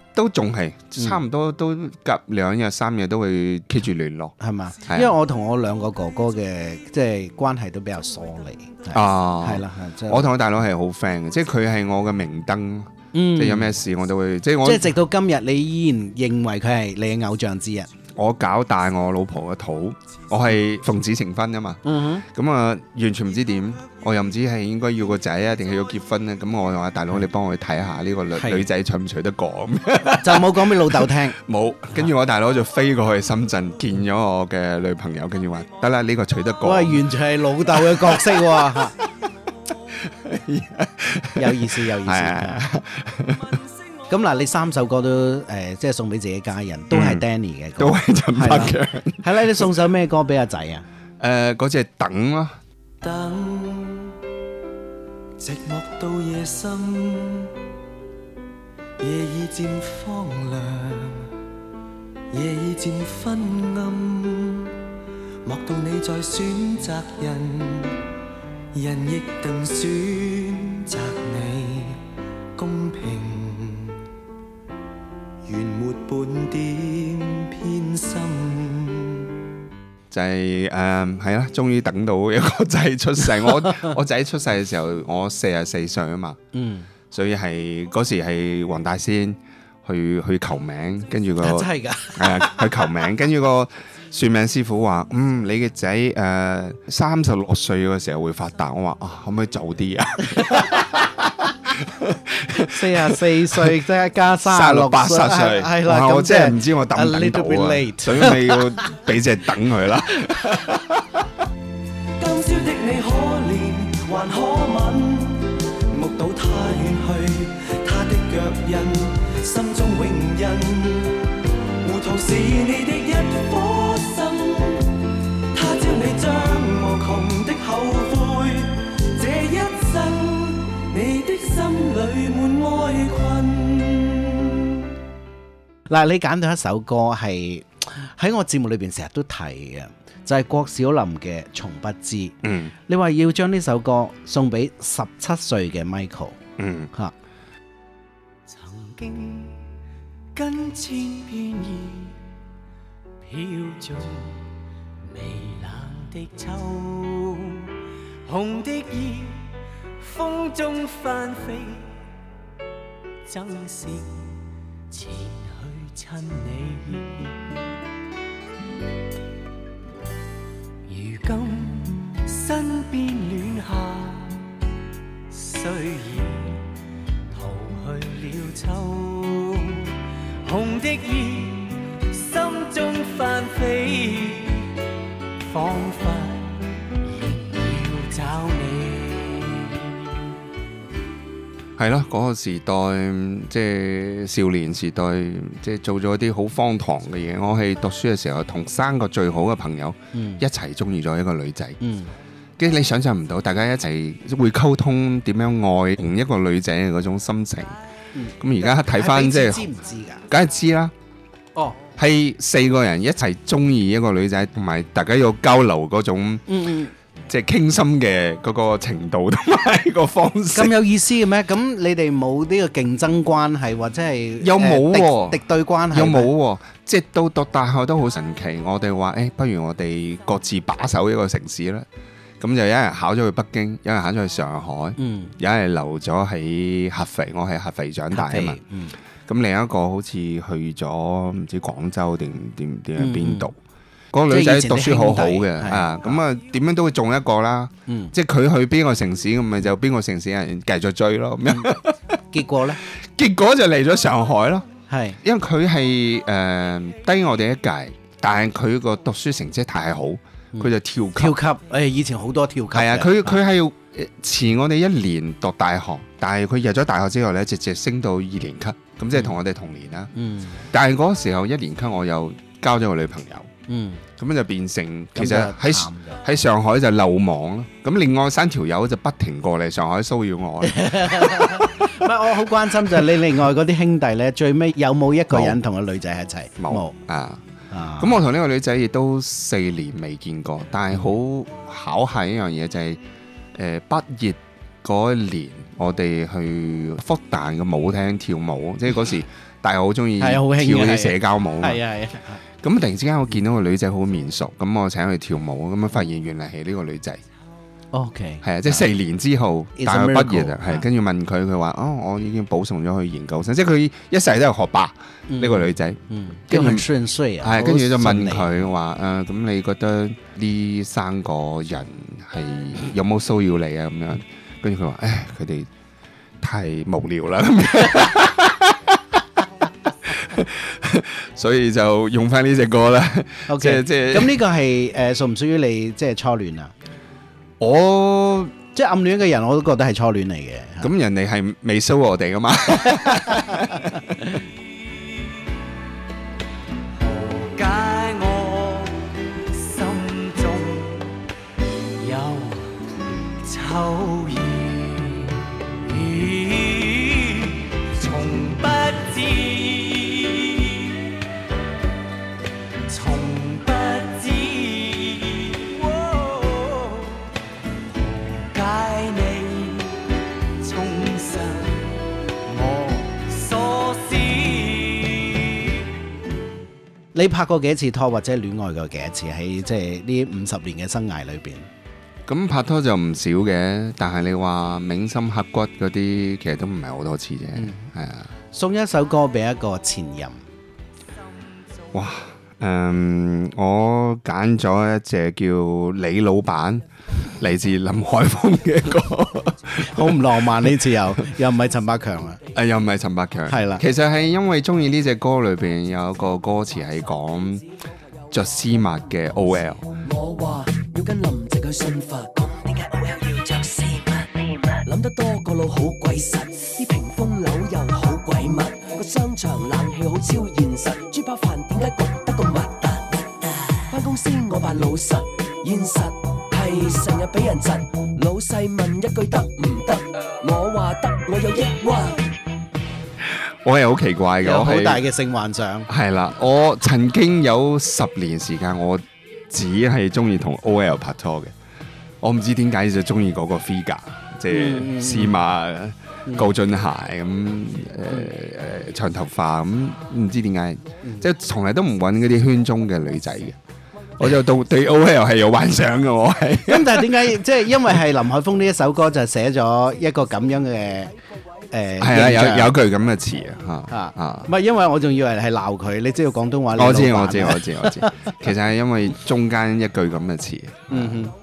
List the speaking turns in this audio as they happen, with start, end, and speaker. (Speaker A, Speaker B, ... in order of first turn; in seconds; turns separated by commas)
Speaker A: 0.1-4.3, Speaker B: 4.4-10.3, Speaker A: 4.9-5.1, Speaker A: 8.9-14.9, Speaker B: 13.1-13.7, Speaker B: 14.6-17.9, Speaker A: 18.1-37.0, Speaker B: 21.8-22.2, Speaker B: 28.4-28.7, Speaker B: 30.2-31.4, Speaker B: 36.6-39.0, Speaker A: 37.7-38.4, Speaker A: 40.0-43.6, Speaker B: 41.4-42.6, Speaker B: 44.1-50.9, Speaker A: 46.9-47.2, Speaker A: 47.8-49.7, Speaker A: 51.2-52.6, Speaker C: 53.0-54.1, Speaker C: 55.4-57.5, Speaker C: 59.0-61.3, Speaker C: 62.3-64.7, Speaker C: 65.4-68.0, Speaker C: 68.7-72.0, Speaker C: 72.5-74.0, Speaker C: 75.4-79.3, Speaker A: 80.1-86.4, Speaker B: 83.6-83.9, Speaker B: 86.5-86.9, Speaker A: 87.1-103.8, Speaker B: 91.4-93.0, Speaker B: 102.6-108.8, Speaker A: 104.4-111.3, Speaker C: 112.2-121.2, Speaker C: 121.8-124.9, Speaker C: 125.5-134.5, Speaker B: 135.9-146.4, Speaker A: 142.4-142.7, Speaker A: 146.6-146.9, Speaker D: 148.5-149.6, Speaker D: 150.3-152.2, Speaker D: 153.2-154.4, Speaker D: 155.0-157.6, Speaker D: 158.2-161.9, Speaker D: 163.3-164.3, Speaker D: 164.9-167.4, Speaker D: 170.9-174.4, Speaker D: 175.3-176.6, Speaker D: 177.3-179.9, Speaker D: 180.4-184.7, Speaker D: 185.4-189.8, Speaker A: 191.8-201.8, Speaker B: 200.1-200.4, Speaker B: 201.8-202.1, Speaker A: 202.6-207.8, Speaker B: 208.1-210.2, Speaker A: 208.4-209.7, Speaker A: 210.3-210.9, Speaker A: 212.0-216.4, Speaker B: 216.5-216.9, Speaker A: 217.3-220.7, Speaker B: 220.5-226.3, Speaker A: 224.4-231.9, Speaker A: 232.4-238.6, Speaker B: 235.0-235.3, Speaker B: 238.1-238.9, Speaker A: 239.2-243.6, Speaker B: 243.0-243.5, Speaker A: 244.1-252.2, Speaker B: 244.3-246.2, Speaker B: 247.9-248.1, Speaker B: 252.3-252.8, Speaker A: 252.9-254.7, Speaker B: 254.9-255.2, Speaker A: 255.2-261.4, Speaker B: 260.5-263.3, Speaker A: 262.7-270.1, Speaker B: 270.1-270.6, Speaker A: 270.7-273.5, Speaker B: 273.7-274.0, Speaker A: 274.2-281.8, Speaker B: 275.1-276.2, Speaker B: 280.7-286.9, Speaker A: 285.3-285.6, Speaker A: 286.6-287.4, Speaker B: 287.7-288.2, Speaker A: 288.0-293.0, Speaker A: 293.5-301.8, Speaker B: 300.2-302.4, Speaker A: 302.6-307.2, Speaker B: 307.9-308.9, Speaker A: 308.4-316.9, Speaker B: 309.8-310.9, Speaker B: 315.3-318.5, Speaker A: 317.4-325.7, Speaker A: 326.4-329.0, Speaker A: 330.0-334.4, Speaker B: 333.5-336.7, Speaker A: 337.6-338.5, Speaker B: 338.7-340.9, Speaker A: 340.8-344.3, Speaker D: 346.9-348.9, Speaker D: 349.5-351.1, Speaker D: 351.9-352.7, Speaker D: 353.4-355.3, Speaker D: 355.9-361.0, Speaker D: 362.9-367.2, Speaker D: 367.9-370.0, Speaker D: 370.6-371.9, Speaker D: 372.5-375.8, Speaker B: 377.1-381.7, Speaker A: 382.3-388.3, Speaker B: 388.5-390.4, Speaker A: 391.9-396.8, Speaker A: 397.4-400.7, Speaker B: 399.9-402.4, Speaker A: 402.5-407.6, Speaker B: 403.5-403.8, Speaker A: 408.3-409.9, Speaker E: 410.0-432.3, Speaker A: 433.2-435.0, Speaker B: 434.4-435.9, Speaker A: 435.9-441.5, Speaker A: 442.2-453.6, Speaker B: 444.5-445.4, Speaker A: 454.2-457.4, Speaker B: 456.7-461.1, Speaker B: 461.7-462.7, Speaker A: 462.0-464.5, Speaker B: 463.9-468.0, Speaker A: 466.7-471.2, Speaker B: 470.9-471.3